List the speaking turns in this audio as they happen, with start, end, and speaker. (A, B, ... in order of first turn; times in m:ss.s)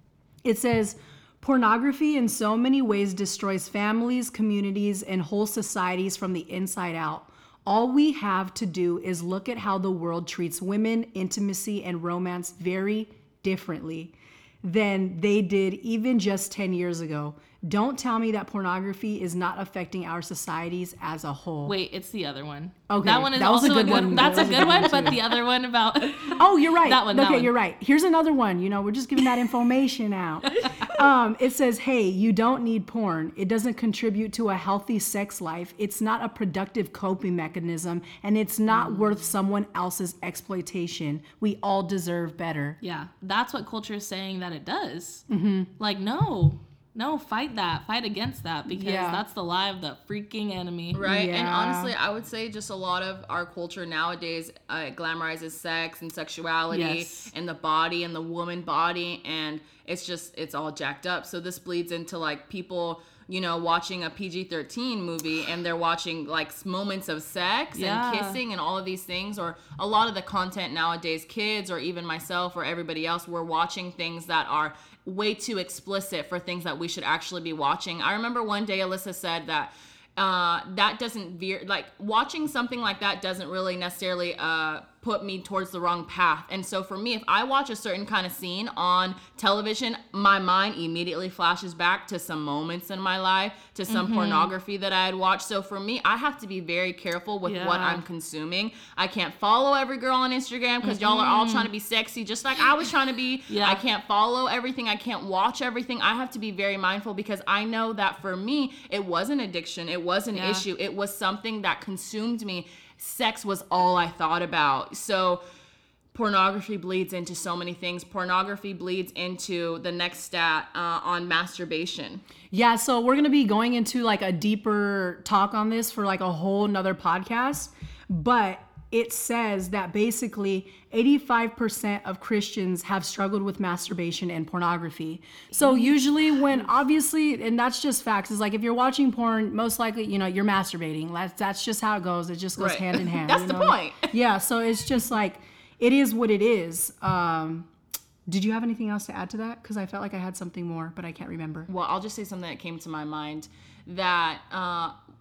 0:00.4-0:21.7 A
0:21.6-0:27.5 B
0:22.9-0:25.4 A
0:26.3-0:42.8 A
0:30.6-0:30.9 B
0:38.7-0:39.2 B
0:42.8-0:45.2 B
0:45.3-0:45.7 A
0:45.8-0:51.0 B
0:48.7-0:49.2 A
0:50.9-1:55.4 C
0:51.0-0:51.9 A
0:56.7-0:57.3 B
1:07.7-1:08.4 B
1:33.9-1:34.5 B
1:37.4-1:38.0 B
1:40.8-1:41.7 B
1:43.5-1:43.8 B
1:50.3-1:50.6 B
1:56.1-2:02.2 C
2:02.5-2:27.7 A
2:15.5-2:15.9 B
2:22.6-2:24.1 C
2:28.2-2:31.7 A
2:31.7-2:34.9 C